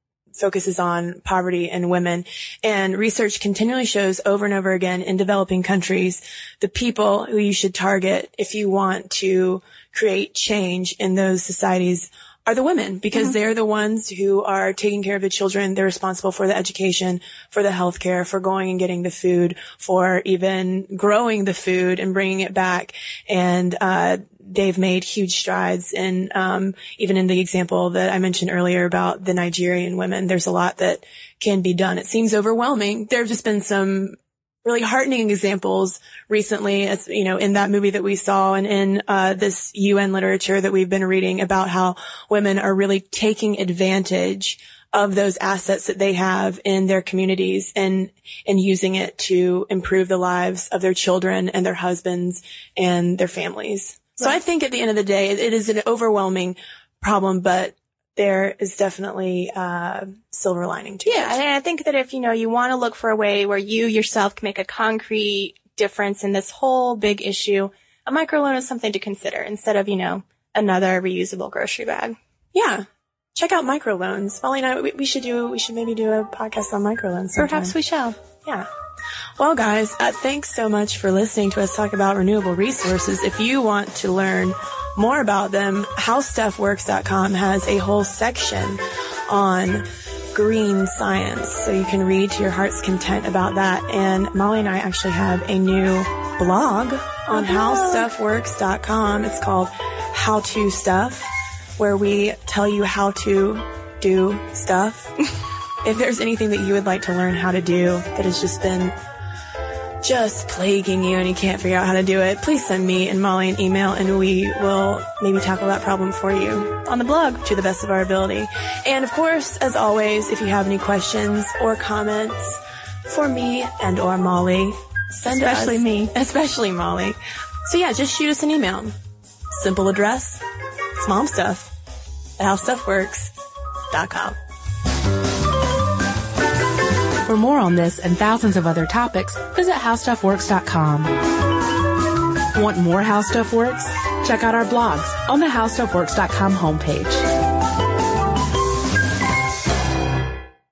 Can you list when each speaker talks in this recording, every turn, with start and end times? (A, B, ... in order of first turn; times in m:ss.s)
0:00.3-1:01.4 A
1:01.0-1:12.2 B
1:12.5-1:12.8 A
1:13.3-1:17.7 A
1:17.4-1:18.2 B
1:19.4-1:45.1 A
1:37.3-1:38.1 B
1:45.8-1:48.9 A
1:50.0-1:56.7 A
1:56.8-1:57.4 B
1:57.4-2:08.9 A
2:05.3-2:06.1 B
2:09.5-2:10.4 A
2:11.0-2:11.7 A
2:12.4-2:13.3 A
2:13.9-2:14.4 A
2:17.2-2:21.1 C
2:22.5-2:27.2 C